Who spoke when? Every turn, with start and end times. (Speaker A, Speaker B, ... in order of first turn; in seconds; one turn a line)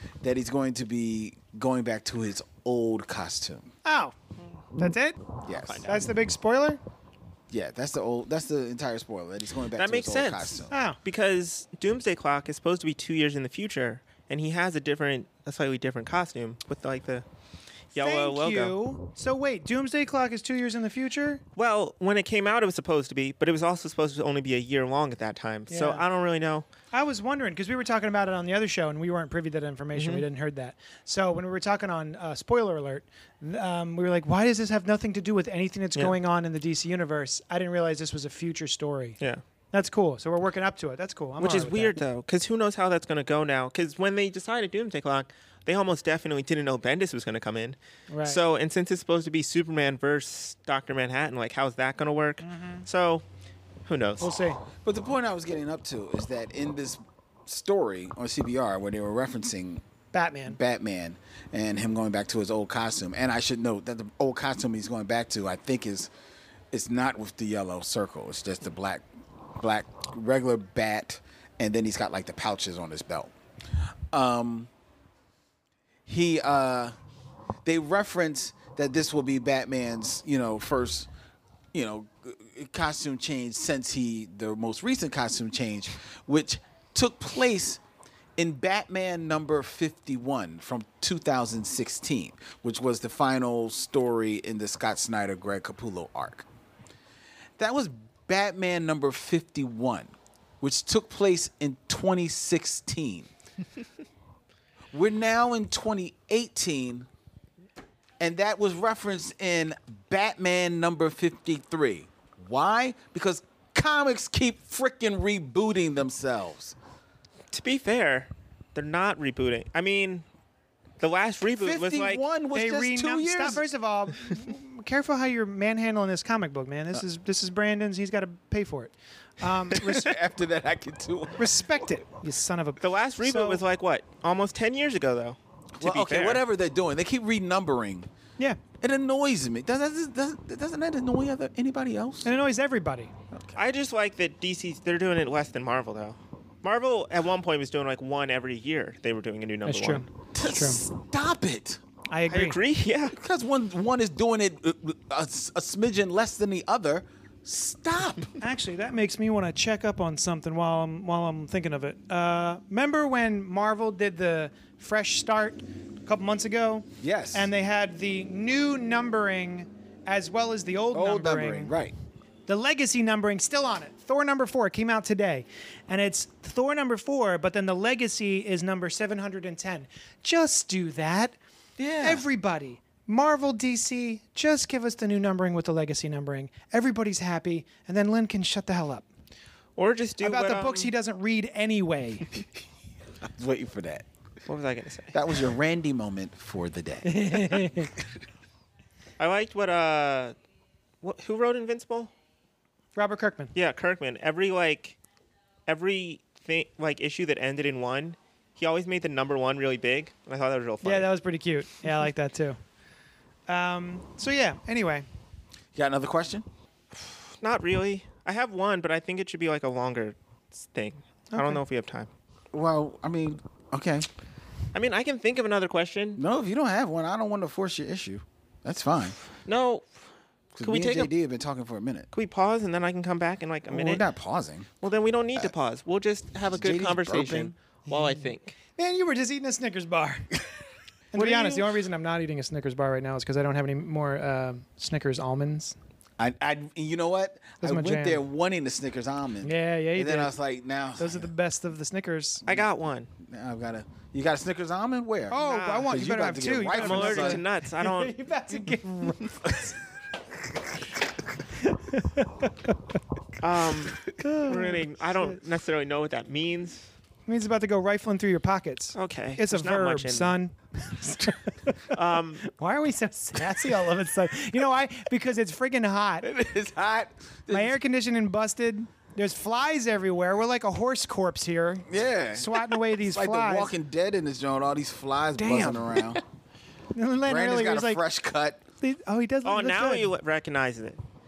Speaker A: 0.2-3.7
Speaker B: 3.8-4.1
Speaker B: 4.8-5.2
Speaker A: 5.4-5.9
Speaker C: 5.7-6.1
Speaker B: 5.9-6.8
Speaker A: 7.5-10.7
Speaker C: 9.8-17.2
Speaker B: 10.7-11.0
Speaker C: 17.9-18.8
Speaker B: 17.9-21.4
Speaker C: 21.6-26.7
Speaker B: 25.7-26.0
Speaker B: 26.9-39.2
Speaker C: 29.9-30.2
Speaker B: 39.7-42.0
Speaker C: 41.4-53.2
Speaker B: 48.1-48.4
Speaker B: 52.4-52.9
Speaker C: 53.9-54.3
Speaker B: 54.2-54.6
Speaker A: 54.8-59.8
Speaker B: 60.1-60.6
Speaker A: 60.5-66.1
Speaker A: 66.7-69.0
Speaker A: 69.6-74.7
Speaker A: 76.0-76.9
Speaker A: 77.6-81.1
Speaker A: 81.7-87.8
Speaker A: 88.4-96.5
Speaker A: 97.6-103.3
Speaker A: 104.9-107.1
Speaker A: 108.2-116.8
Speaker C: 117.5-120.2
Speaker C: 121.0-122.2
Speaker A: 121.5-123.6
Speaker B: 122.5-130.1
Speaker A: 129.7-131.6
Speaker B: 131.4-133.6
Speaker C: 132.8-136.4
Speaker A: 135.8-138.1
Speaker A: 138.8-142.3
Speaker B: 142.2-143.1
Speaker A: 143.3-143.6
Speaker C: 143.6-150.1
Speaker B: 149.6-150.8
Speaker A: 150.3-151.8
Speaker B: 152.1-152.6
Speaker C: 152.3-153.2
Speaker A: 153.1-158.4
Speaker B: 158.4-171.7
Speaker A: 167.0-167.5
Speaker A: 170.9-171.9
Speaker B: 172.5-181.4
Speaker A: 181.8-182.2
Speaker B: 182.0-189.1
Speaker C: 189.8-190.9
Speaker B: 190.2-192.4
Speaker A: 193.2-194.1
Speaker C: 194.5-195.2
Speaker A: 195.1-197.6
Speaker B: 197.0-197.9
Speaker C: 199.2-200.3
Speaker C: 201.0-202.1
Speaker B: 202.9-203.5
Speaker C: 203.6-205.0
Speaker C: 205.7-211.1
Speaker B: 210.8-212.6
Speaker B: 213.5-215.1
Speaker A: 215.7-216.4
Speaker C: 216.9-222.1
Speaker B: 221.3-221.6
Speaker A: 222.5-224.1
Speaker C: 224.7-226.2
Speaker A: 226.2-229.2
Speaker C: 229.4-229.8
Speaker A: 230.6-232.1
Speaker C: 230.6-231.1
Speaker C: 232.1-234.0
Speaker A: 233.7-234.7
Speaker C: 234.8-238.6
Speaker A: 236.5-237.6
Speaker B: 237.9-238.2
Speaker B: 238.8-240.3
Speaker B: 241.1-245.8
Speaker C: 241.2-241.6
Speaker A: 246.2-251.3
Speaker B: 247.6-248.2
Speaker B: 249.4-250.3
Speaker B: 251.0-252.4
Speaker C: 252.4-253.1
Speaker A: 253.2-257.4
Speaker B: 255.3-259.7
Speaker C: 255.4-255.9
Speaker C: 256.7-258.1
Speaker B: 261.6-262.7
Speaker C: 263.4-266.9
Speaker B: 264.2-265.4
Speaker B: 267.3-276.3
Speaker C: 268.9-270.4
Speaker C: 271.9-272.4
Speaker A: 276.2-277.8
Speaker B: 277.5-283.7
Speaker A: 281.9-286.2
Speaker B: 285.4-286.1
Speaker B: 286.9-288.0
Speaker A: 287.2-288.6
Speaker B: 288.8-290.1
Speaker C: 289.4-291.0